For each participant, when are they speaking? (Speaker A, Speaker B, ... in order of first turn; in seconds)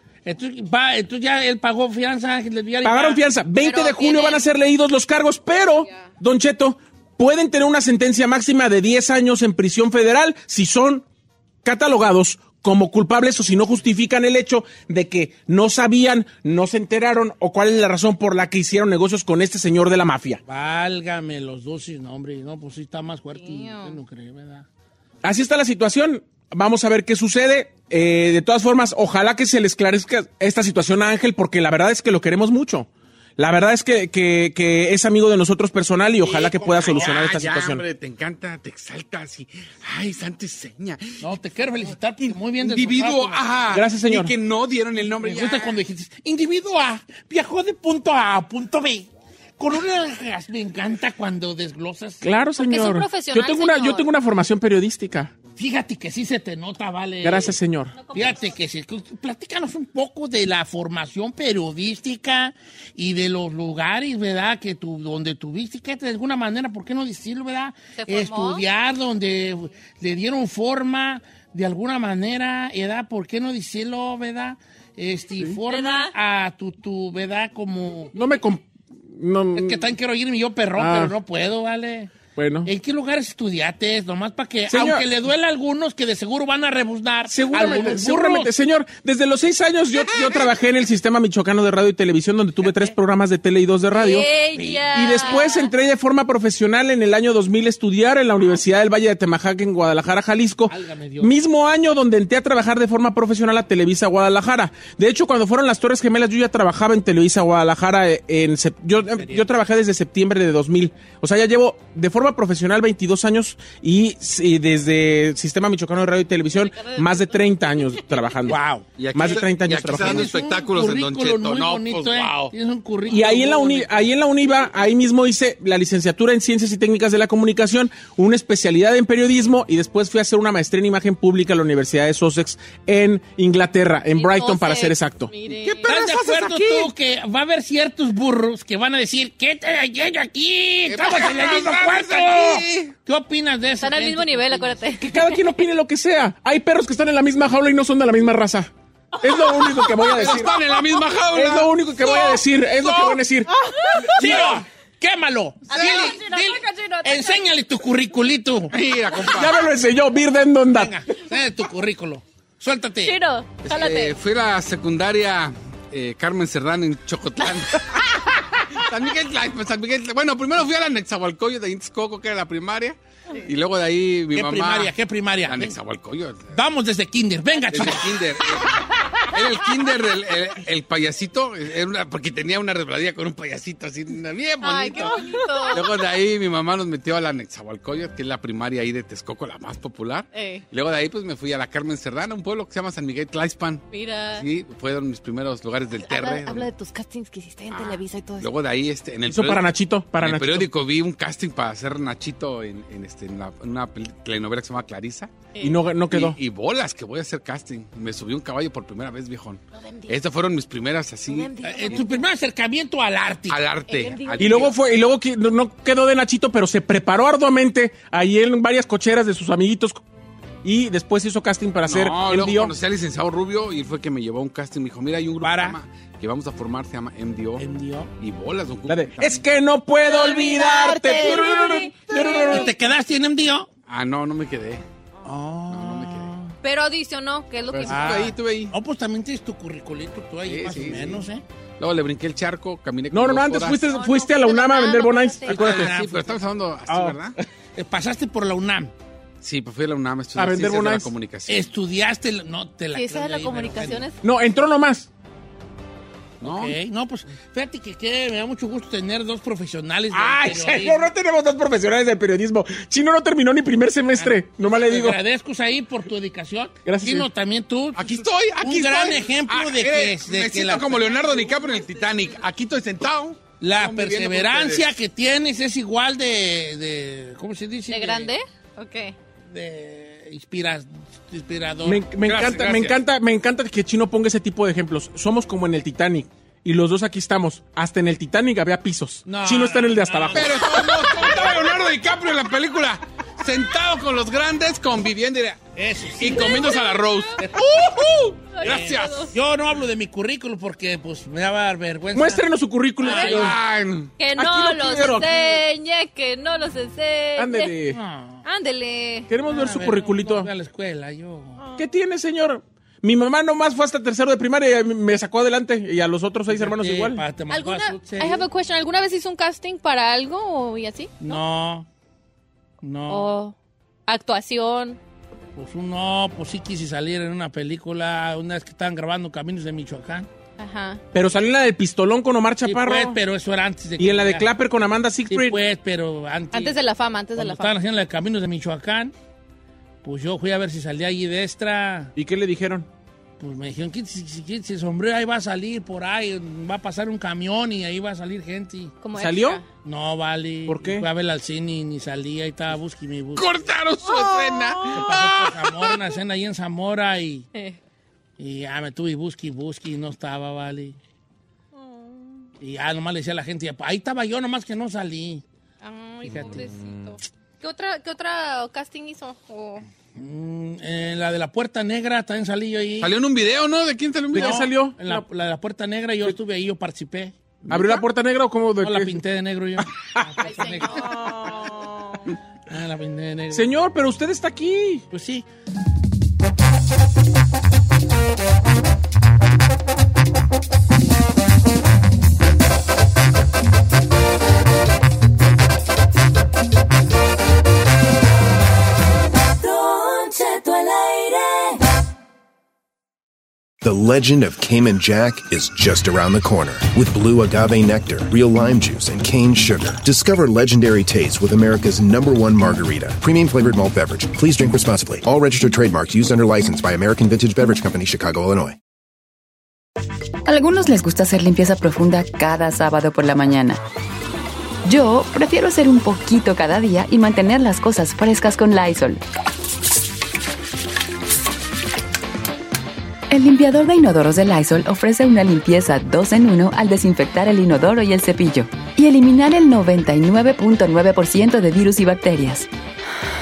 Speaker A: 0.2-3.2, 20.5-24.7, 36.2-37.4, 41.2-43.5, 45.2-49.1, 49.6-52.2, 55.6-57.6, 58.1-78.2, 79.5-88.5, 92.6-93.0, 94.5-95.4, 100.7-101.3, 109.0-109.5, 118.5-124.0, 135.8-144.8, 154.2-158.7, 160.7-163.2, 174.3-175.8, 176.5-178.4, 211.6-213.6, 225.4-225.8, 227.6-228.1, 230.9-231.5, 232.1-233.7, 235.2-236.5, 237.9-241.4, 245.5-246.4, 247.8-248.9, 251.5-254.1, 256.4-261.1, 264.2-271.1, 273.6-278.3, 279.5-282.1, 289.3-291.6, 295.8-296.8, 297.4-298.0, 298.6-302.4, 303.0-303.6, 307.9-308.4, 309.5-311.6, 316.5-318.5, 321.2-321.9, 322.8-323.3, 325.6-330.3, 332.6-334.5, 335.3-336.8, 337.4-339.1, 340.0-342.1, 343.4-349.0, 349.8-353.6, 354.9-357.5, 358.4-361.0, 362.6-365.4, 366.3-366.7, 370.2-373.1, 374.3-377.4, 378.8-381.8, 382.7-383.7, 385.1-385.5
Speaker B: 2.8-11.1, 11.6-20.4, 25.2-37.8, 43.7-44.3, 52.2-55.3, 57.2-58.1, 78.2-78.7, 79.2-79.9, 80.8-81.2, 82.3-82.7, 84.7-85.0, 87.2-94.3, 94.9-118.6, 119.1-120.3, 123.1-135.3, 145.0-150.6, 151.3-154.6, 159.3-161.0, 199.3-200.7, 205.6-206.4, 214.4-220.0, 220.6-222.7, 228.9-232.8, 243.1-245.9, 246.9-247.4, 250.4-251.1, 254.2-255.1, 260.1-265.2, 266.9-267.3, 281.8-290.7, 302.1-303.6, 304.4-305.3, 307.4-308.0, 309.3-310.5, 311.8-317.2, 331.1-333.2, 334.0-335.6, 342.2-342.9, 349.1-349.6, 350.7-351.1, 374.3-375.2, 377.7-379.2, 383.5-385.1
Speaker C: 3.6-4.5, 23.4-24.0, 52.6-54.1, 58.1-58.5, 68.0-68.6, 75.7-76.1, 93.9-95.7, 116.5-118.3, 134.1-135.9, 143.8-145.4, 149.2-150.2, 152.0-153.2, 153.7-154.4, 155.7-157.5, 163.0-164.1, 184.6-185.9, 190.3-190.6, 193.9-194.4, 196.1-198.4, 211.3-212.1, 213.9-214.7, 230.1-232.6, 236.6-238.2, 243.8-245.6, 252.9-254.2, 271.1-272.3, 277.9-279.1, 296.3-297.2, 298.5-299.3, 303.1-303.5, 304.2-307.8, 308.4-309.3, 317.5-321.4, 323.1-323.6, 324.1-325.0, 330.6-331.0, 336.5-337.8, 349.0-349.6, 361.8-362.2, 365.8-369.9, 380.4-382.1
Speaker D: 36.6-41.0, 42.6-45.8, 119.0-122.5, 135.5-136.9, 140.9-142.9, 150.1-151.7, 155.7-156.1, 158.7-159.5, 163.7-168.1, 168.7-176.6, 177.7-196.7, 197.7-199.7, 200.2-205.3, 206.1-212.1, 213.5-214.8, 221.9-227.7, 228.2-229.4, 233.9-234.8, 235.7-236.3, 237.7-238.7, 240.5-241.3, 241.8-243.8, 245.5-247.4, 249.4-251.7, 256.4-256.8, 267.9-274.9, 282.2-283.0, 290.3-295.7, 296.2-299.3, 303.1-304.1, 353.4-356.0, 373.0-374.7
Speaker E: 197.0-197.6, 399.5-401.8
Speaker F: 403.8-418.8
Speaker G: 420.5-423.8, 424.9-429.2, 433.3-442.7